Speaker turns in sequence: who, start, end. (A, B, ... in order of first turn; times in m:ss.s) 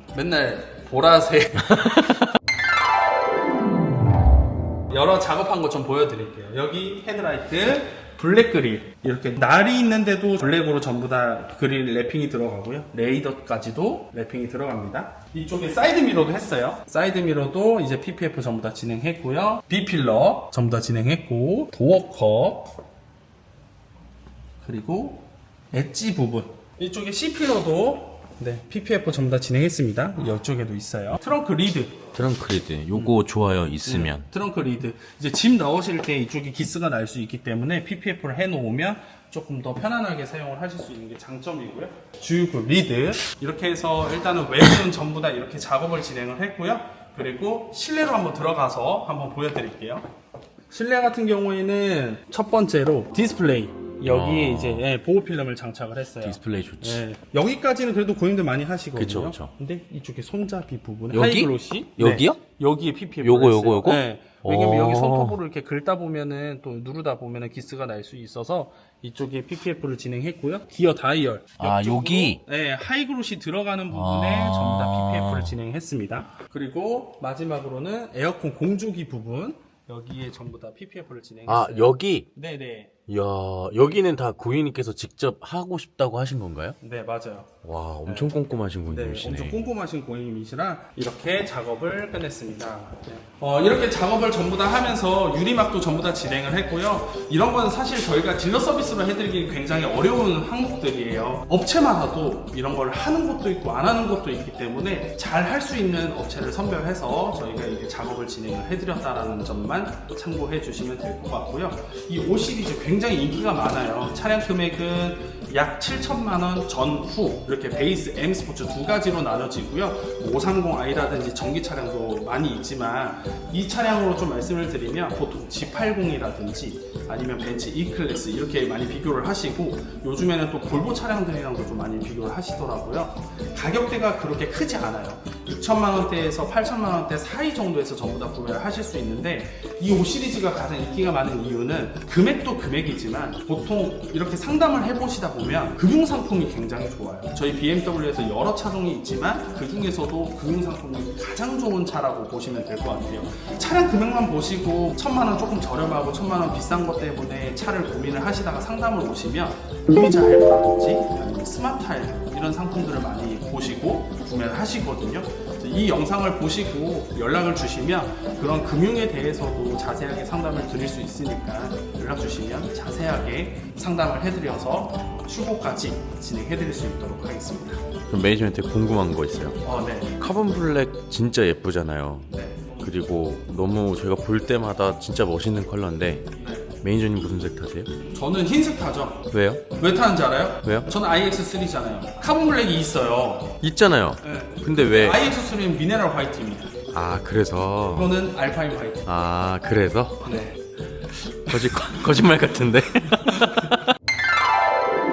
0:00.1-0:02.0 A
0:01.6-0:02.3 B
0:04.9-0:22.8 A
0:24.6-0:32.1 A
0:32.1-0:34.3 B
0:33.8-0:50.1 A
0:50.7-1:22.9 A
0:54.0-0:54.9 B
0:56.2-0:57.0 B
0:59.0-0:59.5 B
1:01.1-1:02.4 B
1:03.2-1:05.4 B
1:11.6-1:12.4 B
1:13.9-1:15.6 B
1:21.5-1:22.3 B
1:23.1-1:26.8 B
1:26.8-1:28.3 A
1:27.6-1:29.6 B
1:28.9-2:57.9 A
2:58.1-2:59.6 B
2:59.6-3:00.2 A
3:00.2-3:06.3 B
3:02.3-3:02.9 A
3:06.4-3:06.7 A
3:06.8-3:07.9 B
3:08.1-3:13.6 A
3:09.3-3:09.6 B
3:10.6-3:10.9 B
3:13.6-3:15.2 B
3:14.2-3:16.8 A
3:16.9-3:18.1 B
3:17.9-3:19.1 A
3:19.1-3:20.3 B
3:20.2-3:20.6 A
3:21.1-3:23.9 B